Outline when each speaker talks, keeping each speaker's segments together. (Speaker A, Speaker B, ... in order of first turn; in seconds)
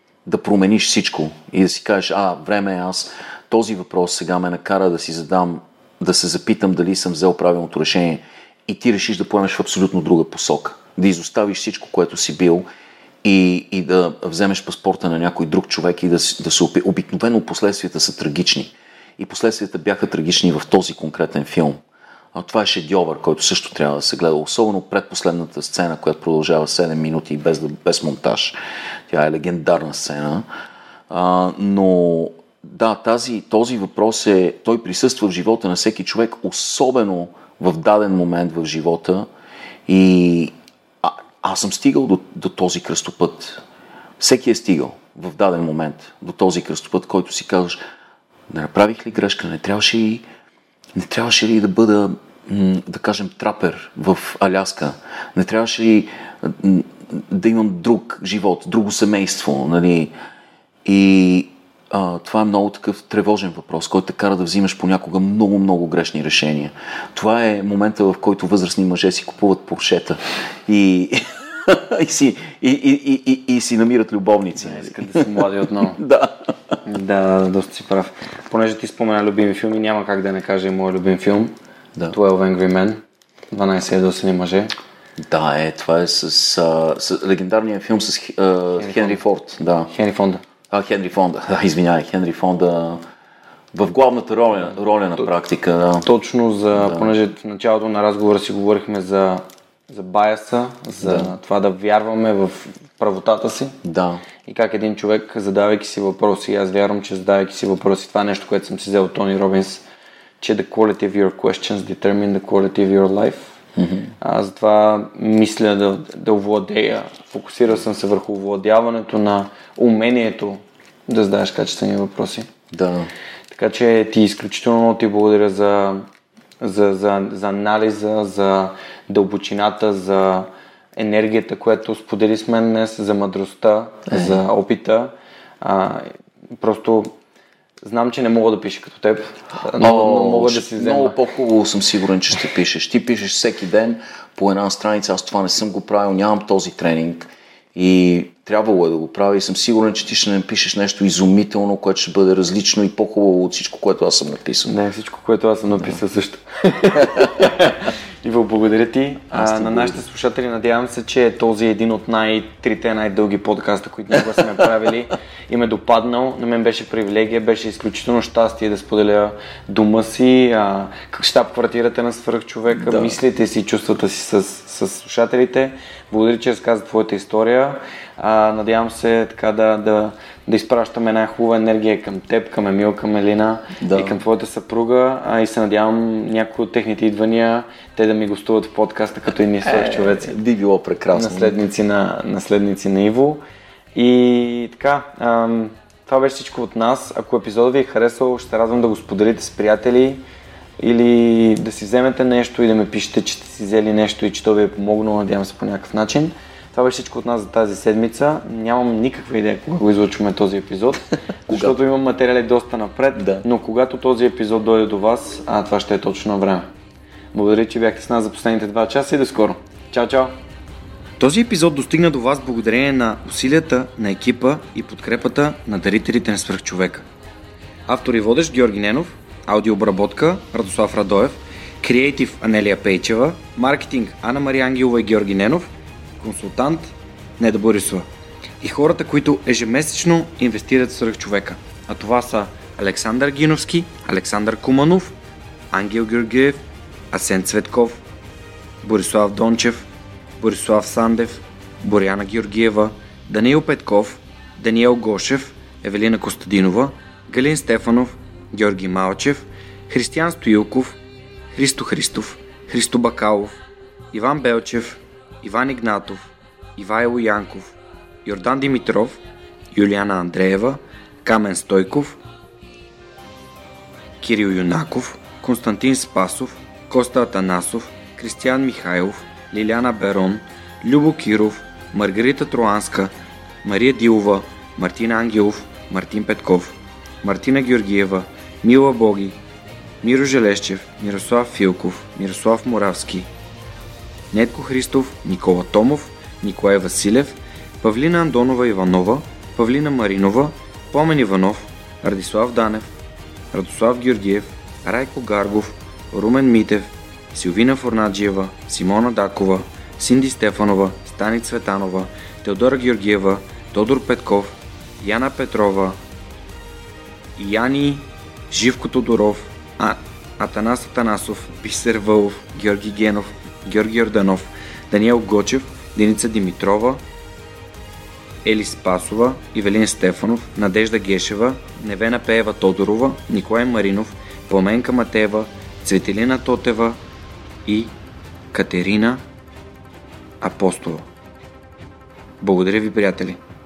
Speaker A: 0.2-12.7, 13.2-21.8, 22.3-28.6, 29.1-30.4, 31.1-39.3, 39.9-43.6, 44.2-47.8, 48.5-50.2, 50.9-60.1, 60.8-76.8, 85.2-89.9, 90.7-93.0, 93.7-96.1, 96.7-97.1, 101.0-101.3, 103.8-104.2, 113.8-114.1, 122.7-123.1, 139.8-154.8, 159.3-160.0, 172.7-173.2, 183.8-184.2, 189.6-191.6, 211.5-211.7, 213.2-213.4
Speaker B: 74.6-76.0, 76.8-81.5, 82.1-84.7, 88.8-89.2, 89.9-90.4, 96.0-103.8, 104.4-109.8, 110.4-113.5, 114.2-122.5, 123.5-126.0, 126.6-137.2, 137.8-141.2, 154.7-190.3, 191.1-193.4, 193.9-200.2, 200.8-216.7, 217.3-220.3, 221.2-227.1, 227.9-238.1, 238.6-245.1, 245.7-248.0, 248.8-249.9, 250.4-261.0, 261.5-263.5, 264.1-269.2, 269.7-272.2, 274.2-289.4, 290.0-293.3, 294.3-302.9, 303.5-316.0, 317.4-327.0, 328.4-337.0, 337.6-337.9, 338.5-339.2, 340.4-341.1, 342.4-343.4